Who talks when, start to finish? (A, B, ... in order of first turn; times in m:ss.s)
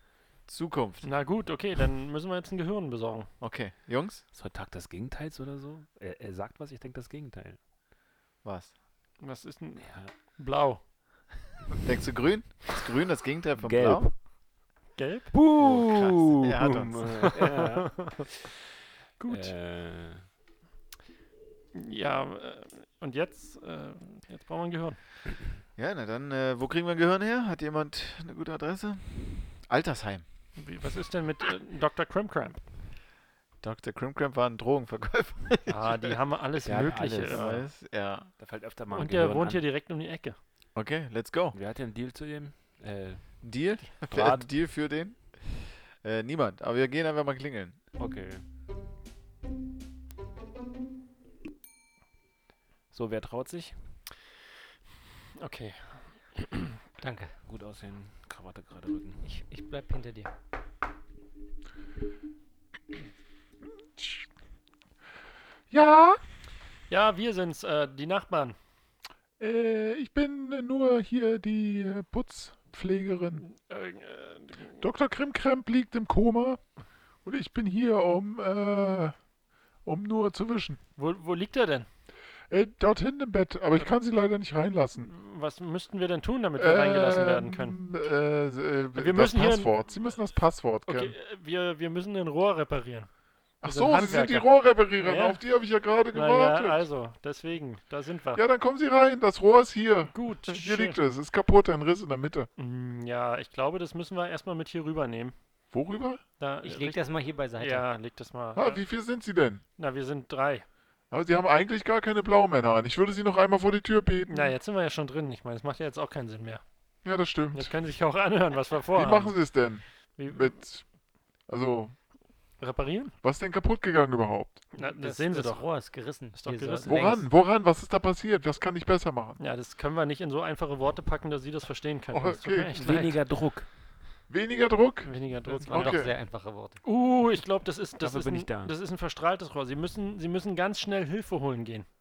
0:00.5-0:01.1 A
0:01.0-0:03.3 B
0:03.4-0:04.2 A
0:04.3-0:07.6 C
0:08.4-0:08.7 A
0:09.2-0:10.8 B
0:09.8-0:10.1 C
0:11.8-0:14.1 A
0:13.6-0:14.1 C
0:15.0-0:15.3 B
0:15.3-0:18.3 C
0:15.5-0:17.4 A
0:17.2-0:18.2 B
0:19.2-0:19.5 B
0:19.3-0:20.2 C
0:21.7-0:25.0 B
0:25.8-0:30.2 A
0:30.6-0:32.6 B
0:33.6-0:38.3 A
0:35.7-0:37.6 B
0:36.6-0:37.4 C
0:38.4-0:39.6 C
0:38.9-0:40.4 B
0:40.7-0:41.6 A
0:41.5-0:43.3 C
0:43.4-0:47.8 A
0:44.0-0:44.5 C
0:48.0-0:48.4 C
0:52.9-0:53.7 C
0:55.4-0:56.8 B
0:57.0-0:57.3 D
0:57.4-0:59.2 C
0:59.2-1:00.3 D
1:05.7-1:06.2 E
1:06.9-1:08.6 B
1:09.4-1:13.4 E
1:13.4-1:14.8 B
1:14.8-1:16.6 E
1:17.2-1:19.1 E
1:19.8-1:20.8 E
1:21.0-1:21.9 B
1:22.5-1:25.1 E
1:25.0-1:27.8 B
1:26.6-1:31.1 E
1:29.0-1:29.7 B
1:30.9-1:33.1 B
1:33.6-1:36.8 E
1:33.6-1:35.4 B
1:36.1-1:38.4 B
1:38.3-1:42.5 E
1:40.1-1:41.0 B
1:42.6-1:45.3 B
1:45.7-1:46.2 E
1:46.4-1:48.8 B
1:46.6-1:47.9 D
1:48.6-1:49.6 E
1:49.8-1:50.6 B
1:51.1-1:54.5 E
1:54.3-1:56.6 B
1:57.0-1:57.7 E
1:57.5-1:59.4 B
1:58.9-2:00.8 E
2:00.2-2:00.6 B
2:01.5-2:01.9 E
2:02.6-2:03.1 B
2:03.2-2:04.6 E
2:04.7-2:05.6 B
2:04.8-2:07.2 D
2:06.3-2:07.2 B
2:06.8-2:09.4 E
2:09.4-2:13.2 B
2:12.1-2:13.0 E
2:12.7-2:13.6 C
2:14.3-2:15.1 E
2:15.0-2:16.0 B
2:15.6-2:16.8 D
2:15.7-2:16.1 E
2:16.8-2:21.9 B
2:18.0-2:18.7 C